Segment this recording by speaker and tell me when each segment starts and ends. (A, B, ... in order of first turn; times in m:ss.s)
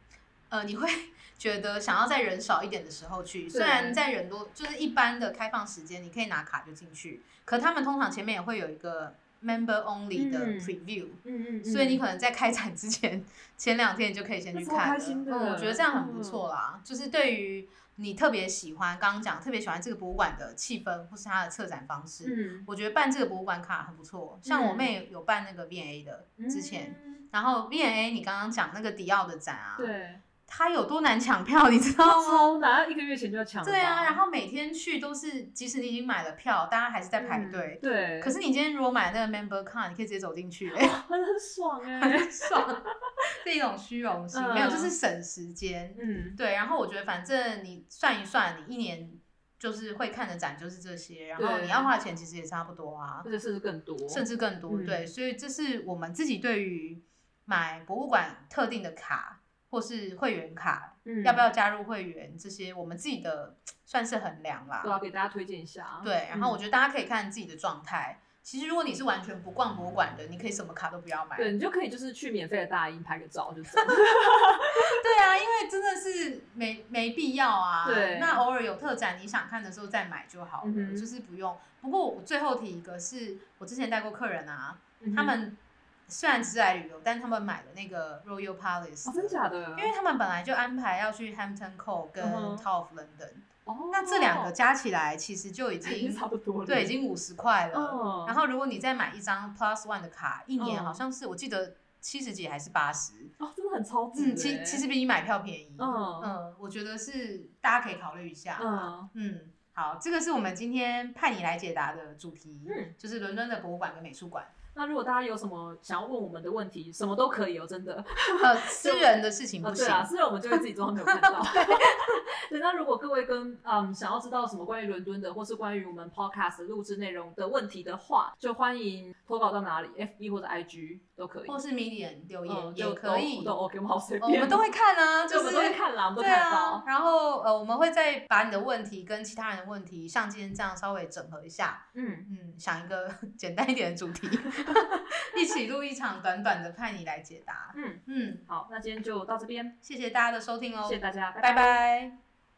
0:00.5-0:29.9 A
0:03.5-0:04.0 B
0:10.1-0:12.0 B
0:14.5-0:16.5 B
0:22.2-0:22.7 B
0:24.4-0:24.9 B
0:26.4-0:27.2 B
0:29.8-0:30.2 B
0:30.5-0:32.6 A
0:32.1-0:34.2 B
0:33.6-0:41.0 A
0:37.2-0:38.4 B
0:40.8-0:42.9 B
0:42.0-0:42.8 A
0:43.3-0:53.3 A
0:44.3-0:44.9 B
0:46.0-0:46.4 B
0:51.4-0:51.9 B
0:53.2-0:55.1 B
0:54.1-1:05.0 A
1:01.0-1:01.4 B
1:04.8-1:06.6 B
1:06.0-1:11.6 A
1:11.4-1:15.0 B
1:13.8-1:14.0 A
1:14.8-1:43.3 A
1:17.8-1:18.4 B
1:20.6-1:21.1 B
1:25.0-1:25.4 B
1:29.0-1:29.9 B
1:32.2-1:32.7 B
1:33.7-1:34.5 B
1:35.8-1:37.0 B
1:37.7-1:38.4 B
1:40.6-1:41.0 B
1:43.4-1:44.9 B
1:44.1-1:54.5 A
1:45.8-1:46.4 B
1:48.6-1:49.1 B
1:52.7-1:52.9 B
1:54.7-1:59.1 B
1:58.4-2:01.9 A
1:59.6-2:11.6 B
2:11.5-2:13.6 A
2:12.5-2:14.7 B
2:14.2-2:28.4 A
2:15.3-2:16.9 B
2:21.9-2:22.3 B
2:27.7-2:29.8 B
2:29.8-2:32.2 A
2:30.8-2:31.8 B